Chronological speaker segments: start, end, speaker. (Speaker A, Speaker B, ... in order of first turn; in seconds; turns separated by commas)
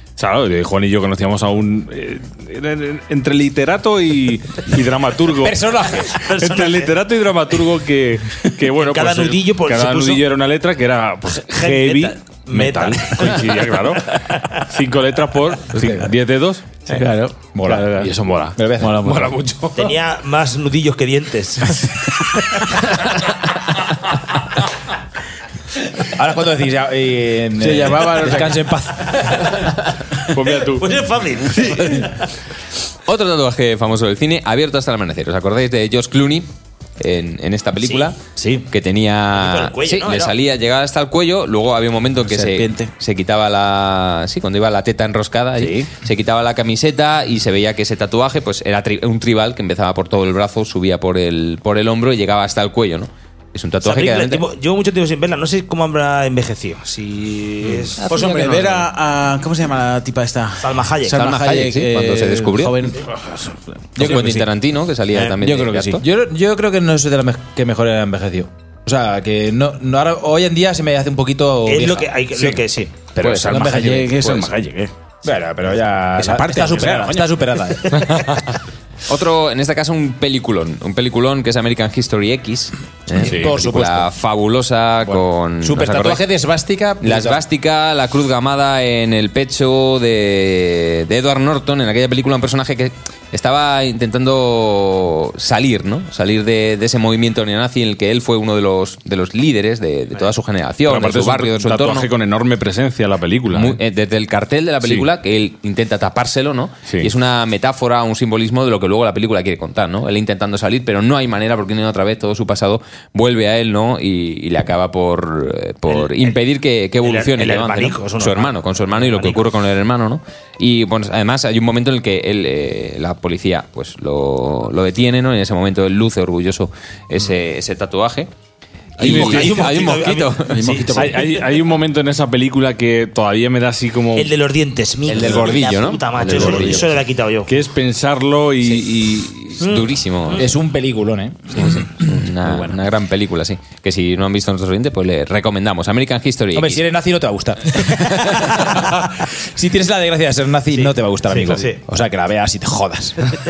Speaker A: 0.2-5.6, Speaker B: 5.4-6.1, Speaker C: 6.2-6.9, Speaker A: 6.3-16.9, Speaker C: 8.7-10.2, Speaker C: 11.5-14.6, Speaker D: 16.9-18.1, Speaker B: 17.5-19.4, Speaker A: 17.9-19.7, Speaker D: 18.8-19.5, Speaker C: 19.7-22.6, Speaker B: 26.1-29.5, Speaker D: 27.6-28.6, Speaker A: 30.3-30.9, Speaker C: 30.5-32.3, Speaker E: 33.0-36.5, Speaker E: 37.0-38.2, Speaker C: 37.8-38.7, Speaker E: 38.7-54.4, Speaker C: 39.3-40.4, Speaker D: 42.2-42.9, Speaker D: 45.6-45.9, Speaker C: 53.8-58.6, Speaker D: 58.0-64.5, Speaker E: 58.0-58.4, Speaker C: 60.6-61.3, Speaker E: 61.1-62.8, Speaker E: 64.0-66.0, Speaker D: 65.4-66.0, Speaker B: 66.0-72.5, Speaker C: 71.7-73.1, Speaker B: 73.2-74.1, Speaker D: 73.2-74.9, Speaker E: 73.2-74.5, Speaker B: 75.2-78.2, Speaker D: 76.2-77.3, Speaker E: 79.1-86.2, Speaker B: 83.1-84.1, Speaker A: 83.2-83.5, Speaker B: 85.1-87.4, Speaker E: 87.0-102.1, Speaker A: 100.8-103.8, Speaker E: 103.5-128.3, Speaker A: 104.8-105.1, Speaker C: 115.9-116.4, Speaker C: 117.0-119.5, Speaker E: 129.0-130.8, Speaker C: 129.0-131.4, Speaker A: 129.0-129.7, Speaker D: 129.1-129.5, Speaker D: 130.5-131.2, Speaker A: 130.9-134.3, Speaker C: 134.1-137.5, Speaker E: 135.1-137.0, Speaker A: 137.5-139.6, Speaker E: 139.6-140.5, Speaker C: 139.6-140.5, Speaker B: 140.4-141.9, Speaker E: 141.6-146.8, Speaker B: 146.5-153.3, Speaker C: 150.7-151.8